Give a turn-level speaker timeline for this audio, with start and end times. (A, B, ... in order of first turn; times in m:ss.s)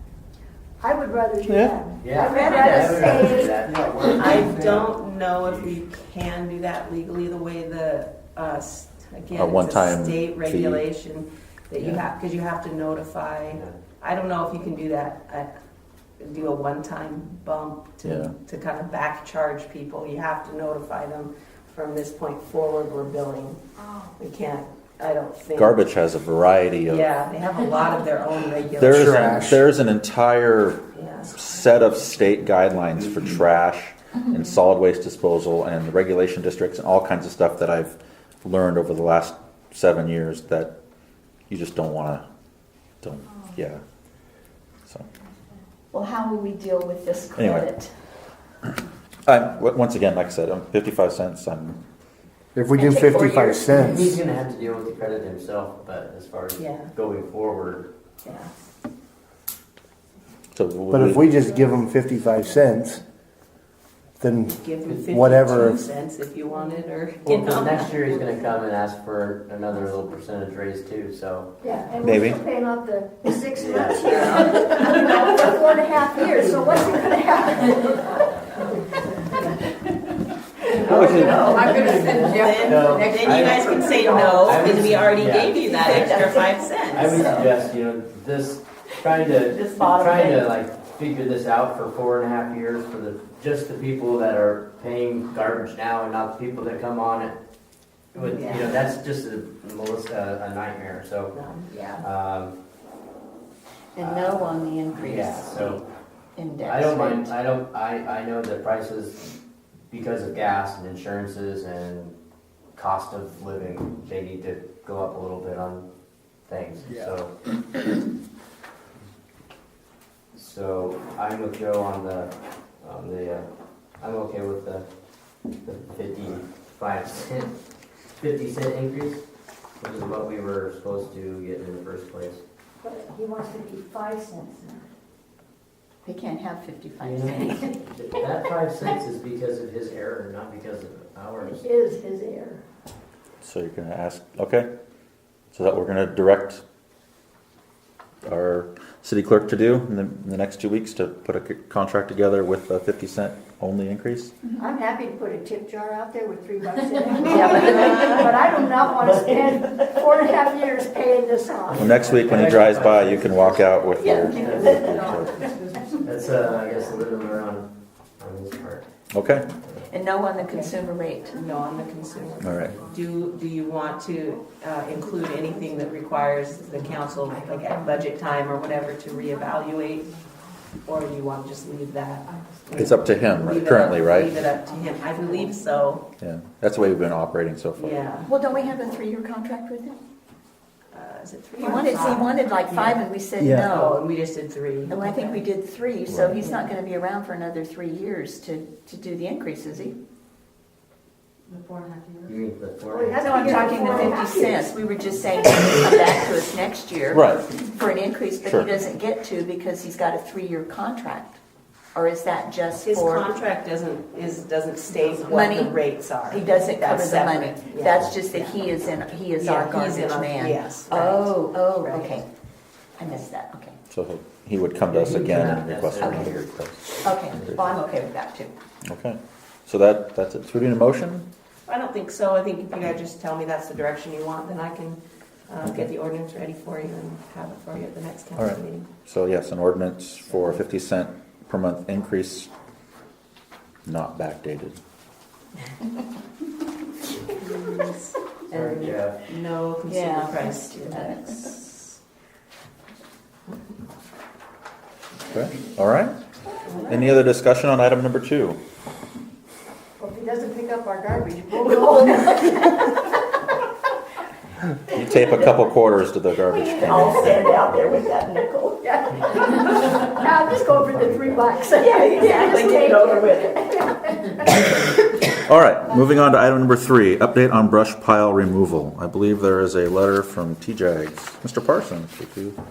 0:00.8-0:03.6 A
0:01.5-0:01.8 B
0:02.0-0:05.8 C
0:02.2-0:03.2 D
0:04.0-0:15.5 E
0:09.3-0:10.8 B
0:13.5-0:13.8 C
0:16.2-0:23.6 E
0:18.0-0:18.3 B
0:23.8-0:24.0 F
0:24.2-0:25.8 E
0:25.5-0:27.1 B
0:26.9-0:29.2 E
0:28.8-0:40.7 B
0:28.9-0:29.6 G
0:30.9-0:31.4 E
0:41.5-0:42.2 B
0:43.0-0:43.8 B
0:45.9-0:47.9 D
0:47.4-0:47.7 B
0:49.3-0:51.8 B
0:52.5-0:54.1 G
0:52.7-0:54.1 D
0:53.8-0:57.9 C
0:56.6-0:56.9 E
0:58.2-0:58.5 E
1:00.6-1:01.4 B
1:00.9-1:03.0 G
1:04.2-1:05.8 G
1:04.4-1:08.1 E
1:07.2-1:11.5 C
1:11.6-1:19.4 A
1:12.0-1:12.4 B
1:13.5-1:14.5 C
1:20.7-1:23.7 C
1:20.8-1:24.6 F
1:20.8-1:21.5 B
1:21.2-1:21.6 A
1:21.2-1:27.4 E
1:23.9-1:24.3 A
1:24.4-1:26.3 C
1:25.6-1:27.6 D
1:26.9-1:37.4 C
1:29.0-1:30.6 D
1:38.1-1:41.4 C
1:38.2-1:38.8 E
1:41.3-1:41.8 E
1:42.0-1:42.5 C
1:43.9-1:45.8 D
1:44.0-1:45.8 C
1:46.3-1:47.3 D
1:46.6-1:49.2 C
1:49.9-1:52.1 C
1:52.7-1:55.8 C
1:56.5-1:57.3 C
2:00.3-2:03.5 C
2:04.0-2:04.8 C
2:05.6-2:07.6 C
2:08.2-2:09.2 C
2:09.8-2:12.4 C
2:12.8-2:14.8 A
2:16.0-2:17.7 D
2:17.0-2:21.6 C
2:21.4-2:22.6 A
2:23.4-2:24.7 B
2:25.5-2:26.6 B
2:28.2-2:34.4 B
2:34.6-2:41.9 A
2:41.7-2:45.0 C
2:41.8-2:45.4 B
2:44.0-2:45.2 D
2:44.2-2:46.7 F
2:46.0-2:48.8 C
2:49.1-2:49.4 B
2:49.9-2:51.4 D
2:51.3-3:00.1 E
2:52.0-2:53.0 F
2:52.4-2:52.8 B
2:55.0-2:56.2 F
2:56.7-2:58.2 F
2:59.1-2:59.5 F
3:00.8-3:06.0 E
3:02.3-3:03.1 F
3:02.8-3:04.4 B
3:04.7-3:05.8 F
3:06.2-3:08.2 B
3:07.8-3:08.3 E
3:08.2-3:10.0 D
3:10.9-3:15.4 E
3:11.6-3:14.0 D
3:14.9-3:20.0 D
3:16.1-3:16.4 B
3:21.5-3:22.3 F
3:22.2-3:23.3 C
3:22.9-3:24.6 A
3:23.2-3:31.4 D
3:27.1-3:27.4 B
3:28.4-3:28.7 B
3:31.9-3:33.3 D
3:32.8-3:38.6 E
3:35.2-3:42.2 D
3:39.4-3:42.1 E
3:43.0-3:43.8 D
3:43.9-3:46.9 B
3:44.9-3:46.5 C
3:46.0-3:46.3 D
3:47.0-3:48.5 D
3:47.0-3:47.6 C
3:48.8-3:51.2 B
3:51.6-3:58.9 E
3:58.4-4:02.5 B
4:03.8-4:04.8 B
4:07.3-4:12.0 E
4:08.5-4:09.2 C
4:09.9-4:11.6 D
4:15.3-4:16.1 B
4:16.8-4:18.6 B
4:20.0-4:22.7 A
4:21.8-4:22.6 D
4:24.9-4:27.4 B
4:25.0-4:25.6 D
4:26.6-4:28.9 D
4:26.8-4:27.1 A
4:28.8-4:34.3 A
4:31.8-4:34.1 D
4:34.6-4:42.6 B